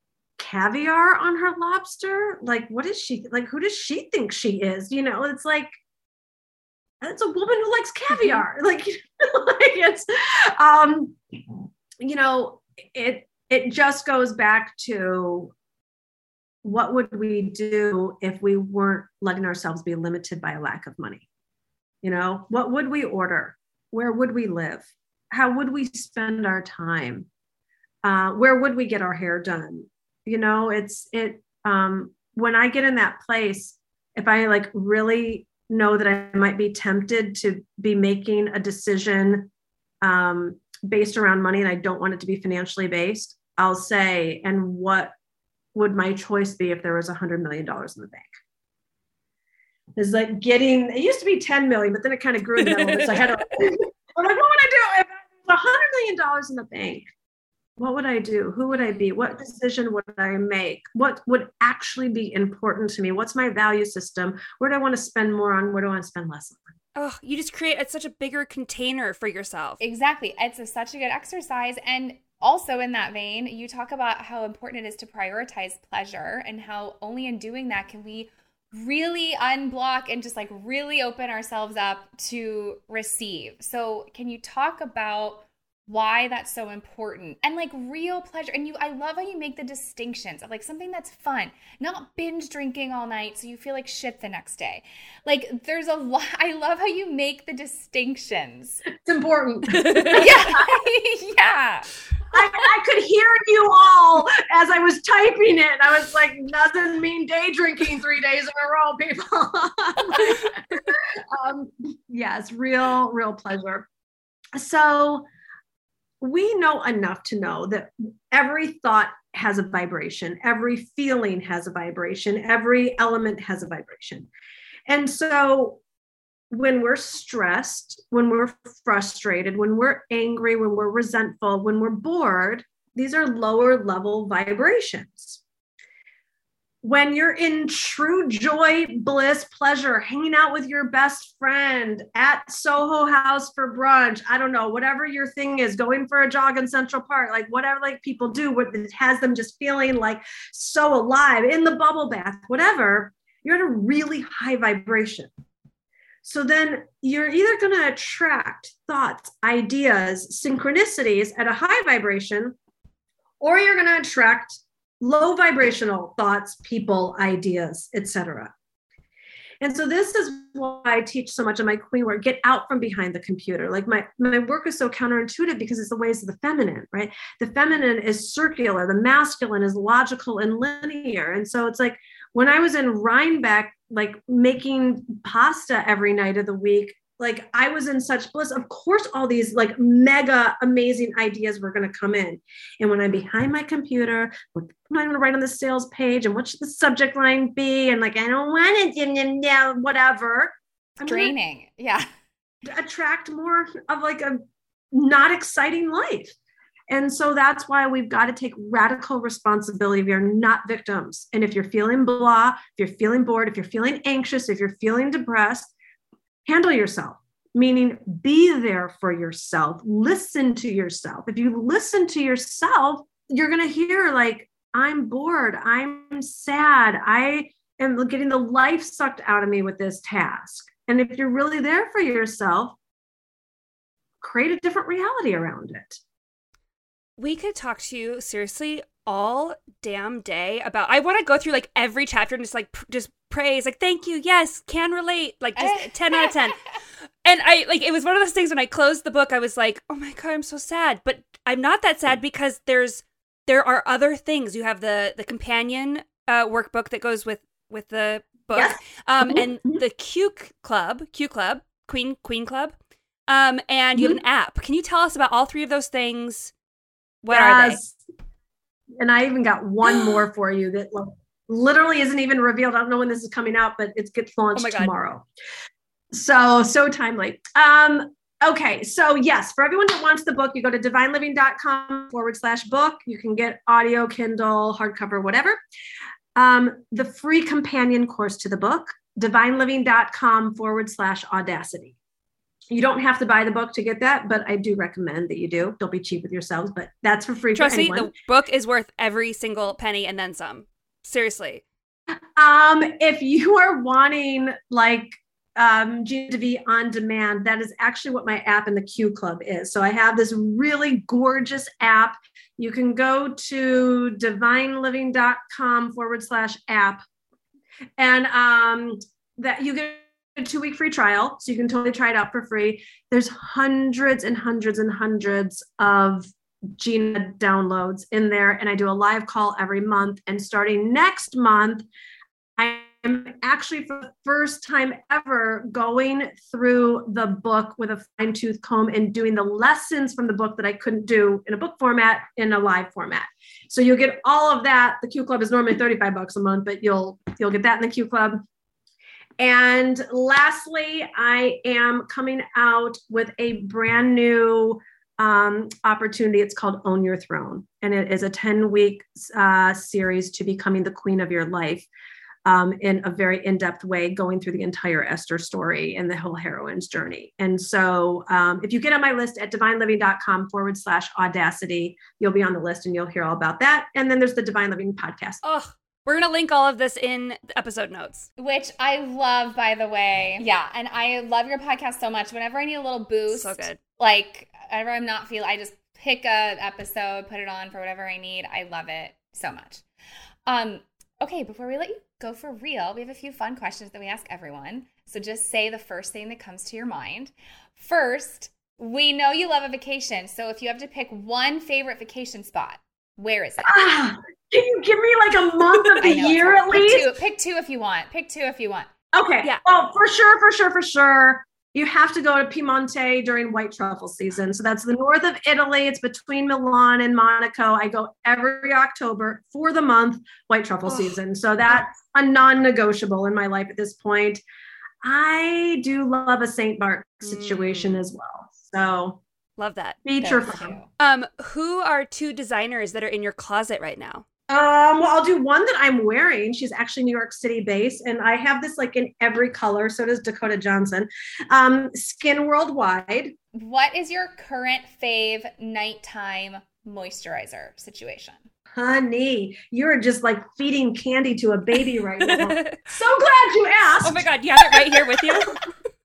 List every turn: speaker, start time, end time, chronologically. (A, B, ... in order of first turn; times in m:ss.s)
0:00.4-0:05.7 A
0:07.0-0:11.2 A
0:08.1-0:08.4 B
0:12.0-0:15.5 A
0:16.6-0:21.2 A
0:22.0-0:27.3 A
0:28.0-0:39.5 A
0:40.0-0:45.1 A
0:45.7-0:48.3 A
0:50.0-0:57.1 A
0:52.6-0:53.4 B
0:57.8-1:06.6 A
1:07.0-1:09.8 B
1:09.8-1:38.8 C
1:39.0-1:40.7 A
1:39.7-1:40.3 B
1:40.1-1:41.9 C
1:42.3-1:53.9 A
1:54.6-1:55.2 A
1:56.2-2:04.3 A
2:04.9-2:05.8 A
2:06.5-2:15.4 A
2:16.8-2:35.3 A
2:36.2-2:42.6 A
2:43.4-2:48.5 A
2:49.6-3:21.3 A
3:21.0-3:22.1 C
3:22.6-3:24.4 A
3:24.9-3:26.4 A
3:26.9-3:35.7 A
3:36.5-3:52.8 A
3:54.2-3:56.0 A
3:57.2-4:06.6 B
4:05.6-4:06.6 C
4:07.2-4:22.7 B
4:18.6-4:19.8 A
4:23.3-4:26.5 B
4:27.2-4:27.8 B
4:27.3-4:28.0 A
4:29.0-4:35.2 A
4:29.9-4:30.1 B
4:34.6-4:34.9 B
4:36.1-4:45.6 A
4:46.4-4:52.0 A
4:52.7-4:58.1 A
4:57.5-5:01.6 B
5:02.4-5:17.0 A
5:18.0-5:31.8 A
5:32.6-5:48.4 A
5:49.4-6:01.9 A
6:02.4-6:15.4 A
6:15.4-6:18.3 B
6:18.4-6:29.8 C
6:23.3-6:23.8 B
6:30.5-6:43.8 C
6:43.6-6:47.1 A
6:46.0-6:48.9 C
6:49.1-7:04.4 A
7:00.9-7:01.2 B
7:05.0-7:09.2 A
7:07.2-7:08.1 B
7:09.6-7:10.0 B
7:10.0-7:10.8 A
7:10.2-7:10.9 C
7:11.0-7:14.2 B
7:14.5-7:23.4 A
7:23.5-7:28.4 C
7:28.8-7:35.4 A
7:32.2-7:32.8 B
7:34.0-7:35.7 B